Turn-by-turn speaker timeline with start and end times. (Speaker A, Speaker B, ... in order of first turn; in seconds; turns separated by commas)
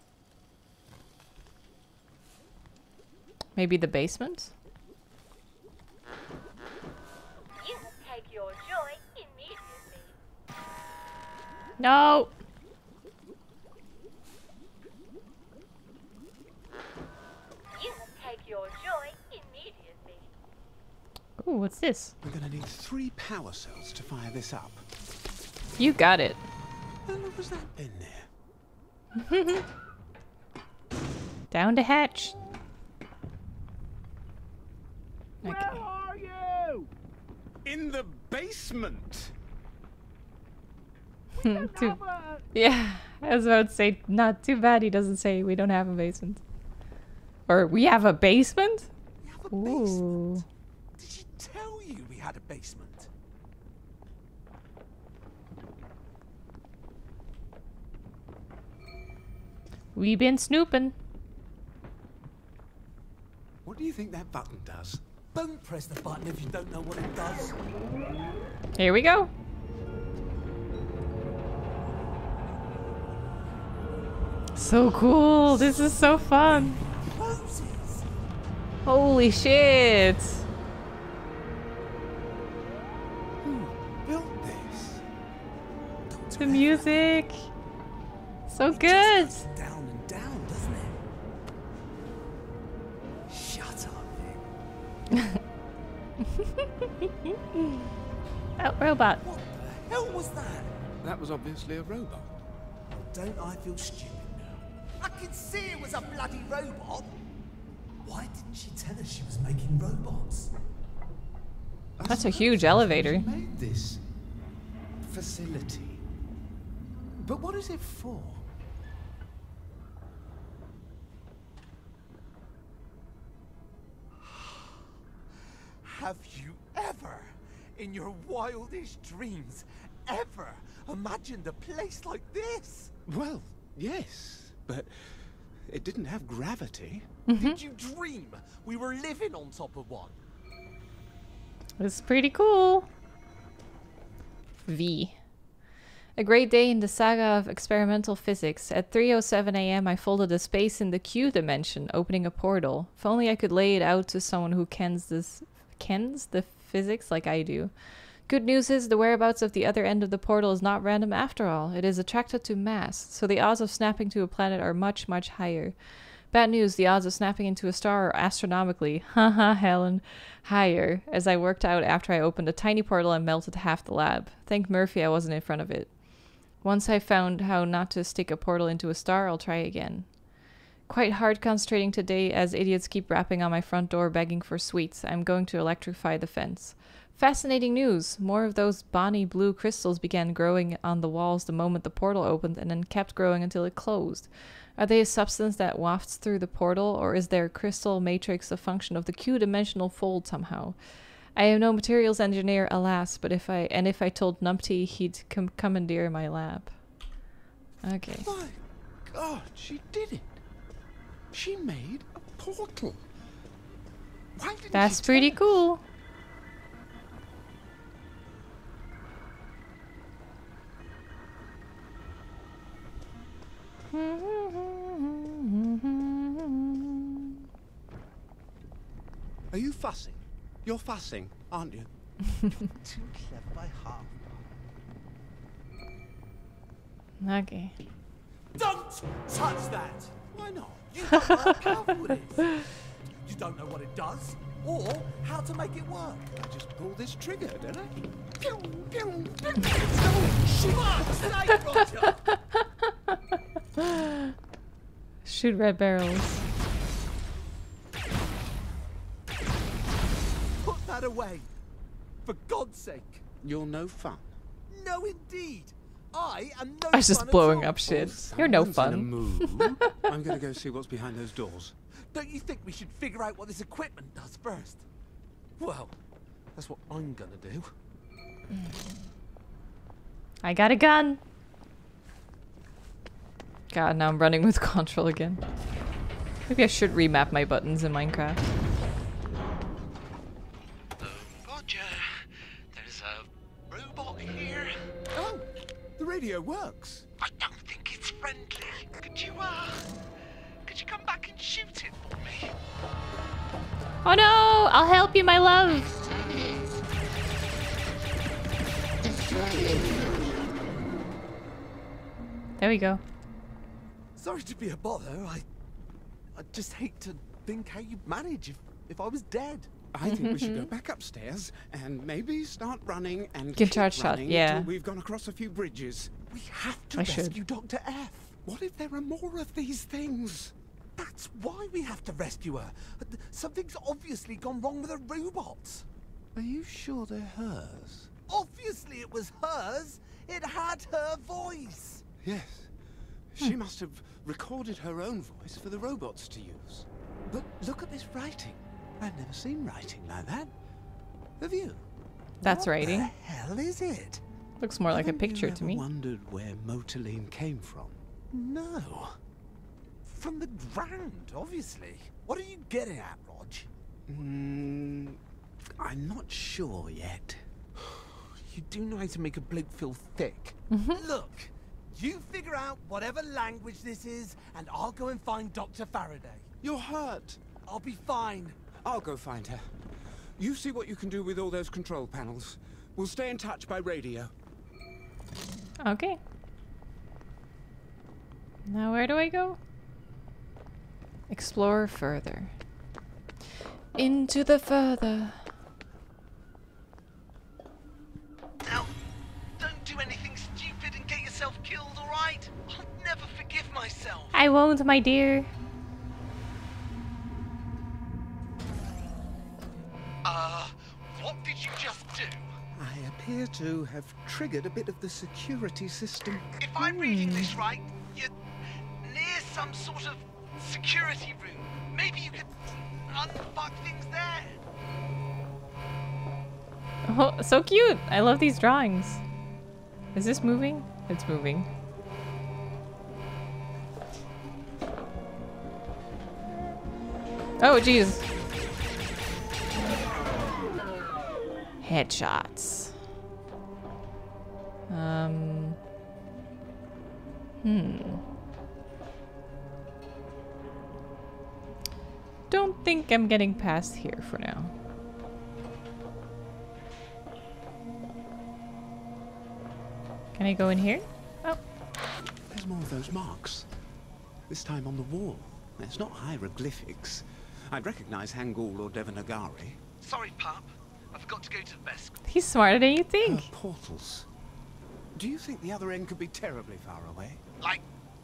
Speaker A: 3.6-4.5, Speaker B: 7.5-10.1, Speaker A: 11.8-12.3, Speaker B: 17.7-20.3, Speaker A: 21.4-22.1, Speaker C: 22.2-24.9, Speaker A: 25.8-26.4, Speaker C: 27.1-28.3, Speaker A: 29.2-29.6, Speaker A: 31.5-32.4, Speaker C: 35.4-36.9, Speaker A: 35.4-35.8, Speaker C: 37.6-39.4, Speaker A: 41.4-42.0, Speaker D: 41.4-42.4, Speaker C: 41.7-42.4, Speaker A: 42.5-46.4, Speaker A: 47.5-48.9, Speaker D: 49.2-50.4, Speaker A: 49.5-50.5, Speaker D: 51.0-53.1, Speaker A: 60.0-61.0, Speaker C: 63.6-65.0, Speaker D: 65.3-67.6, Speaker A: 68.8-69.3, Speaker A: 74.5-76.8, Speaker D: 77.1-78.1, Speaker A: 78.8-80.5, Speaker C: 83.4-85.0, Speaker D: 86.1-86.9, Speaker A: 86.4-87.5, Speaker A: 88.5-89.5, Speaker D: 88.7-91.0, Speaker D: 93.3-94.5, Speaker A: 96.4-97.8, Speaker A: 98.6-99.2, Speaker D: 99.2-100.8, Speaker C: 101.0-102.3, Speaker D: 103.0-107.2, Speaker D: 108.0-110.5, Speaker C: 112.0-114.0, Speaker A: 112.1-113.3, Speaker C: 115.0-116.0, Speaker C: 117.2-118.5, Speaker D: 124.3-124.7, Speaker D: 125.8-132.9, Speaker C: 133.1-137.1, Speaker A: 137.3-137.6, Speaker D: 137.4-140.2, Speaker A: 141.8-142.9, Speaker A: 144.7-145.2, Speaker A: 146.2-157.7, Speaker A: 158.3-165.8, Speaker A: 166.3-176.0, Speaker A: 176.6-180.1, Speaker A: 180.9-200.8, Speaker A: 201.3-206.7, Speaker A: 207.8-208.3, Speaker C: 208.2-210.4, Speaker C: 211.3-213.0, Speaker C: 214.4-215.4, Speaker A: 214.7-215.8, Speaker A: 223.9-227.4, Speaker C: 229.5-231.9, Speaker D: 232.8-234.3, Speaker A: 237.2-237.8, Speaker D: 238.5-240.2, Speaker C: 240.3-241.6, Speaker D: 240.9-242.7, Speaker D: 243.2-246.3, Speaker C: 246.3-251.3, Speaker D: 249.7-252.2, Speaker A: 252.6-253.2, Speaker A: 253.8-254.3, Speaker A: 255.2-256.4, Speaker D: 260.6-261.5, Speaker D: 262.2-263.3, Speaker C: 263.4-264.3, Speaker D: 264.7-267.9, Speaker A: 266.9-269.9, Speaker C: 267.8-271.8, Speaker D: 272.1-274.9, Speaker D: 275.6-276.0, Speaker D: 276.6-277.7, Speaker A: 280.4-281.2, Speaker A: 283.7-285.4, Speaker A: 286.5-288.5, Speaker D: 291.0-294.9, Speaker C: 295.1-297.1, Speaker D: 297.2-299.9, Speaker D: 300.7-302.5, Speaker A: 304.1-305.9, Speaker A: 312.6-313.0, Speaker D: 314.2-315.5, Speaker D: 316.4-319.9, Speaker C: 319.9-326.3, Speaker A: 320.1-320.7, Speaker A: 323.6-324.7, Speaker D: 326.3-328.4, Speaker A: 327.0-327.4, Speaker C: 328.4-330.5, Speaker D: 331.0-335.9, Speaker C: 336.4-338.1, Speaker D: 338.3-342.0, Speaker C: 342.2-342.7, Speaker C: 343.3-350.5, Speaker C: 351.4-351.9, Speaker A: 352.4-353.1, Speaker D: 352.4-354.2, Speaker A: 354.6-355.9, Speaker C: 354.9-358.0, Speaker D: 358.3-359.2, Speaker D: 360.1-363.7, Speaker C: 364.1-365.2, Speaker C: 365.8-367.5, Speaker D: 368.3-376.5, Speaker A: 370.7-371.0, Speaker C: 376.6-377.4, Speaker D: 377.6-378.7, Speaker C: 378.8-379.8, Speaker C: 380.4-384.3, Speaker A: 385.8-386.2, Speaker A: 388.7-389.6, Speaker A: 391.3-392.5, Speaker A: 393.9-395.5, Speaker D: 398.6-398.9, Speaker D: 399.6-404.4, Speaker A: 404.3-405.5, Speaker D: 410.2-412.5, Speaker C: 412.8-416.5, Speaker D: 416.6-418.3, Speaker A: 416.8-417.6, Speaker D: 419.0-424.6, Speaker A: 427.1-429.2, Speaker A: 430.1-431.7, Speaker A: 437.6-438.3, Speaker A: 441.8-442.9, Speaker A: 444.9-445.8, Speaker A: 447.6-448.2, Speaker A: 452.5-454.7, Speaker A: 460.4-461.6, Speaker C: 462.5-463.7, Speaker C: 464.5-469.8, Speaker D: 470.0-472.2, Speaker A: 472.3-473.5, Speaker C: 473.2-474.3, Speaker C: 475.1-477.4